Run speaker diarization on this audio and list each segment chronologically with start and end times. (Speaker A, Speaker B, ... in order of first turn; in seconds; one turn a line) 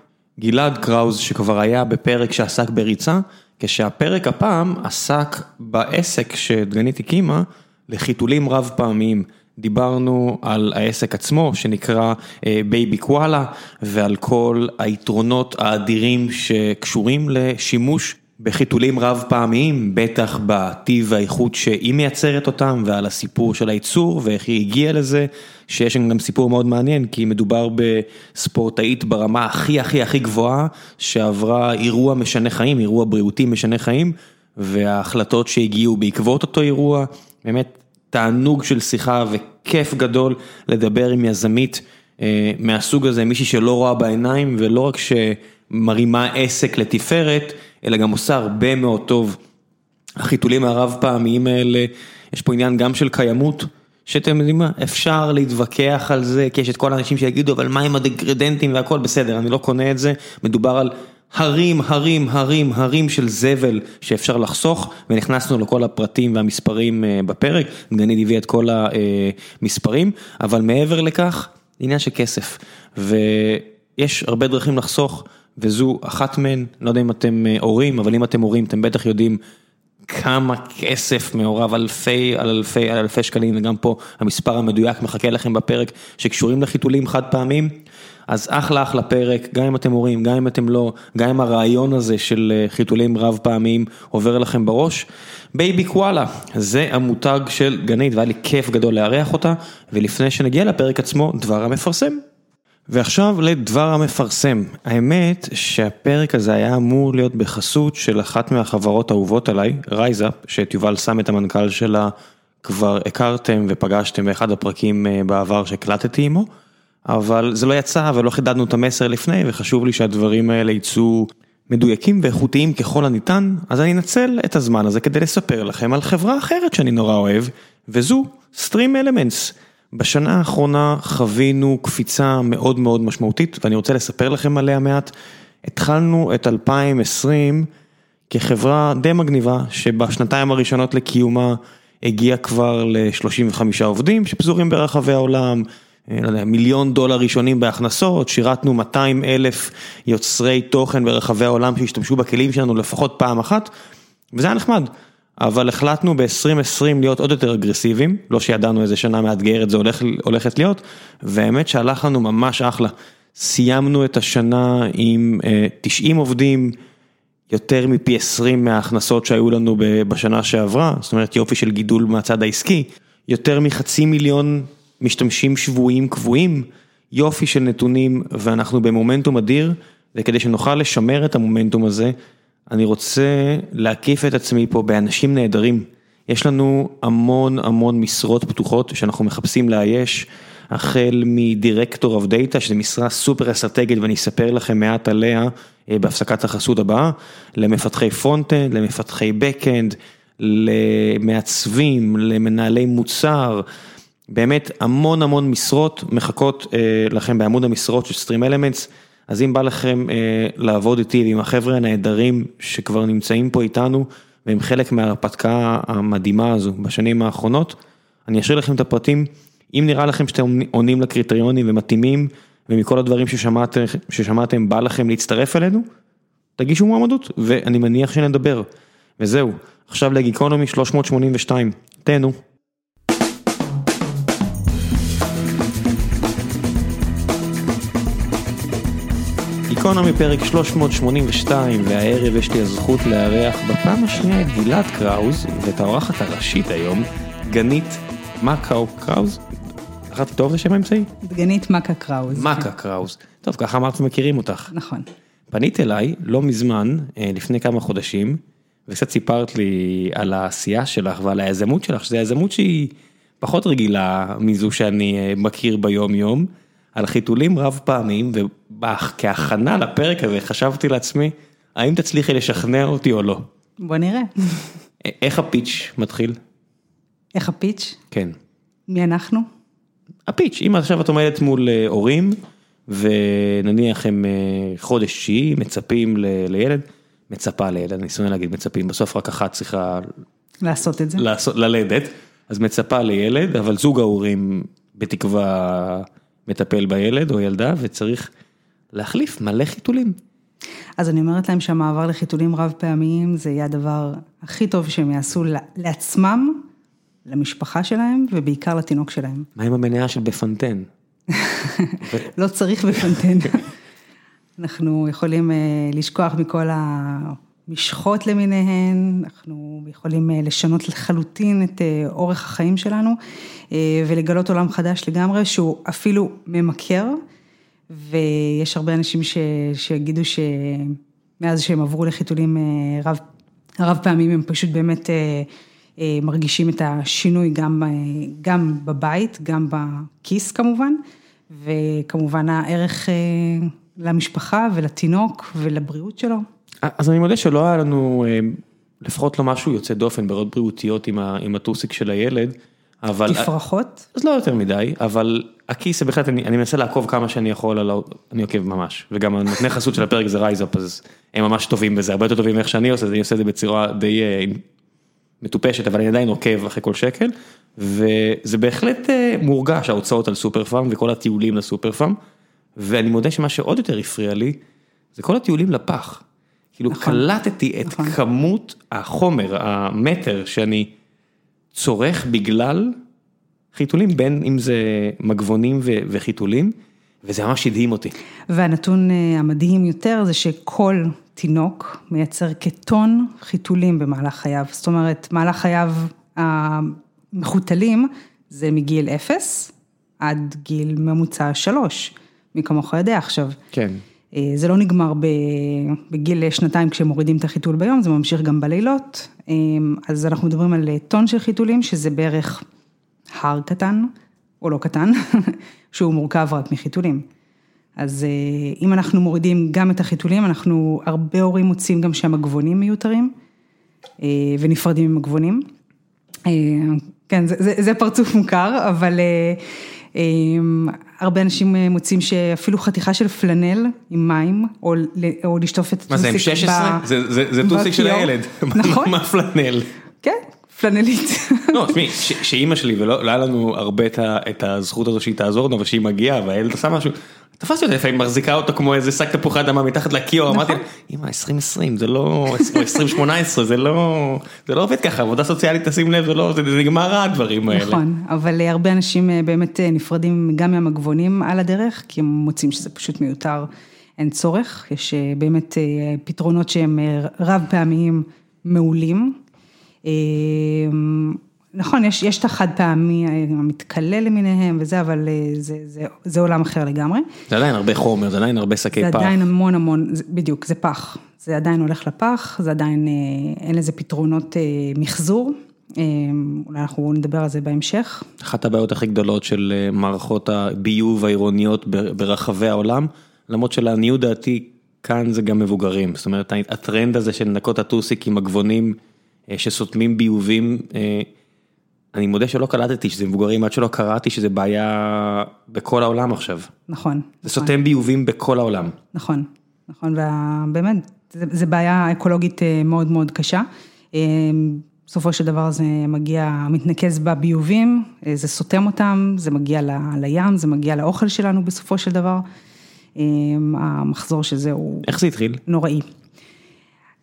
Speaker A: 0.4-49.4
Speaker A: 50.2-79.4
Speaker A: 80.1-87.7
Speaker A: 88.3-102.2
Speaker A: 102.9-116.5
Speaker A: 117.0-135.1
Speaker A: 135.6-137.7
Speaker A: 138.3-153.7
Speaker A: 154.3-166.8
Speaker A: 167.5-182.1
Speaker A: 182.7-203.6
Speaker A: 204.3-225.8
Speaker A: 226.6-228.7
Speaker A: 229.2-232.4
Speaker A: 239.7-249.4
Speaker A: 250.1-251.1
Speaker B: 251.2-252.7
Speaker A: 252.3-254.7
Speaker B: 254.7-255.1
Speaker A: 255.5-273.4
Speaker B: 273.8-274.7
Speaker A: 275.0-276.4
Speaker B: 277.3-278.0
Speaker B: 278.9-279.5
Speaker A: 280.3-290.1
Speaker B: 290.6-291.2
Speaker A: 291.1-298.3
Speaker A: 298.9-300.2
Speaker B: 301.0-306.6
Speaker B: 307.2-309.5
Speaker A: 309.6-310.9
Speaker B: 311.3-313.6
Speaker B: 314.6-323.2
Speaker B: 323.7-327.2
Speaker B: 327.9-333.2
Speaker B: 333.8-346.4
Speaker A: 346.8-353.5
Speaker B: 353.3-354.1
Speaker A: 354.1-364.6
Speaker A: 365.4-372.2
Speaker A: 372.8-374.6
Speaker A: 375.1-376.2
Speaker A: 376.8-380.9
Speaker B: 376.9-377.2
Speaker B: 377.8-378.1
Speaker A: 381.7-383.0
Speaker A: 383.7-388.1
Speaker B: 388.5-403.6
Speaker A: 403.7-404.0
Speaker B: 404.3-412.6
Speaker B: 413.3-417.2
Speaker B: 418.0-423.3
Speaker B: 424.2-425.6
Speaker B: 426.4-437.1
Speaker A: 436.1-439.9
Speaker B: 437.6-439.1
Speaker B: 440.2-442.2
Speaker A: 441.7-458.0
Speaker B: 450.5-450.8
Speaker B: 457.7-469.4
Speaker B: 470.0-477.3
Speaker A: 477.5-479.4
Speaker B: 479.0-488.3
Speaker A: 488.4-499.0
Speaker A: 499.5-501.3
Speaker A: 502.1-506.7
Speaker B: 506.9-507.7
Speaker A: 507.4-508.9
Speaker B: 509.1-522.4
Speaker B: 523.1-525.1
Speaker A: 525.0-525.6
Speaker B: 525.6-526.0